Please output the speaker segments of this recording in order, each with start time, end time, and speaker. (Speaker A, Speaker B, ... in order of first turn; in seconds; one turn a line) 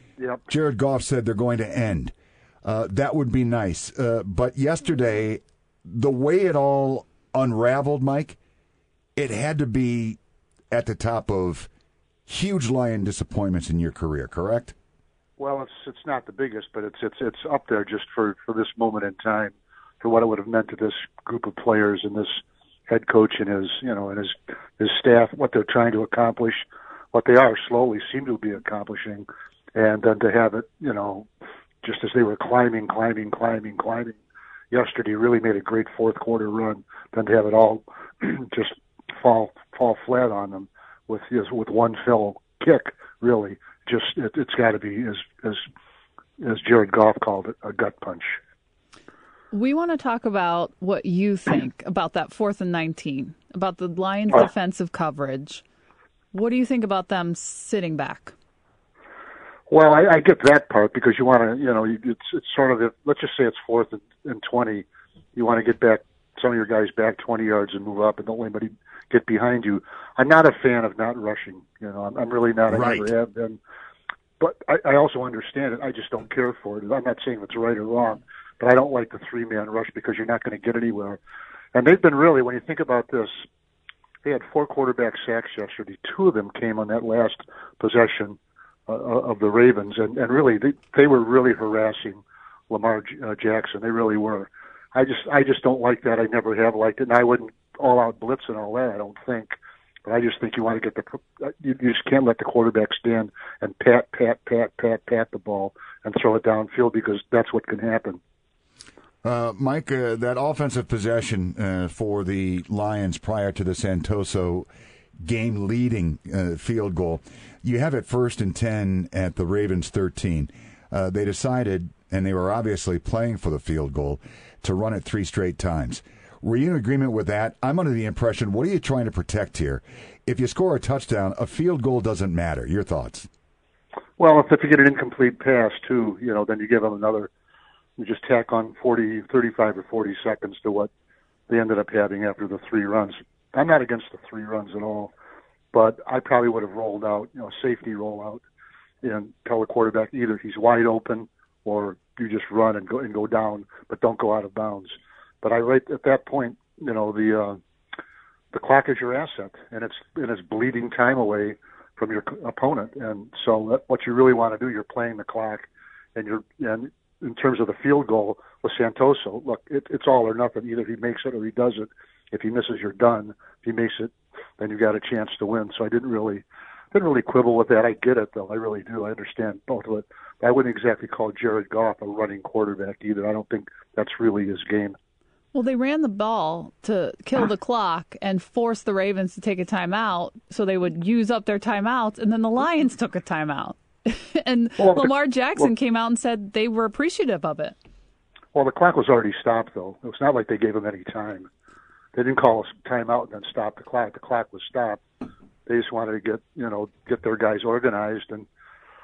Speaker A: 0.2-0.5
Speaker B: 0.5-8.4
Speaker B: 9.2-10.2
Speaker B: 10.7-11.7
Speaker B: 12.3-14.8
Speaker A: 15.4-31.3
Speaker A: 31.8-34.2
Speaker A: 34.7-45.6
Speaker A: 46.4-48.4
Speaker C: 49.5-55.6
Speaker C: 56.3-58.3
Speaker A: 59.7-73.6
Speaker B: 72.7-73.1
Speaker A: 74.4-81.2
Speaker A: 81.7-83.5
Speaker A: 84.2-99.5
Speaker A: 100.1-108.2
Speaker B: 109.2-114.7
Speaker B: 115.2-133.3
Speaker A: 134.2-137.3
Speaker A: 138.0-140.9
Speaker A: 141.5-145.1
Speaker A: 145.7-148.4
Speaker A: 149.0-157.6
Speaker A: 158.5-185.0
Speaker C: 185.5-197.8
Speaker A: 194.8-195.1
Speaker A: 198.5-201.5
Speaker A: 202.1-205.0
Speaker A: 205.7-208.5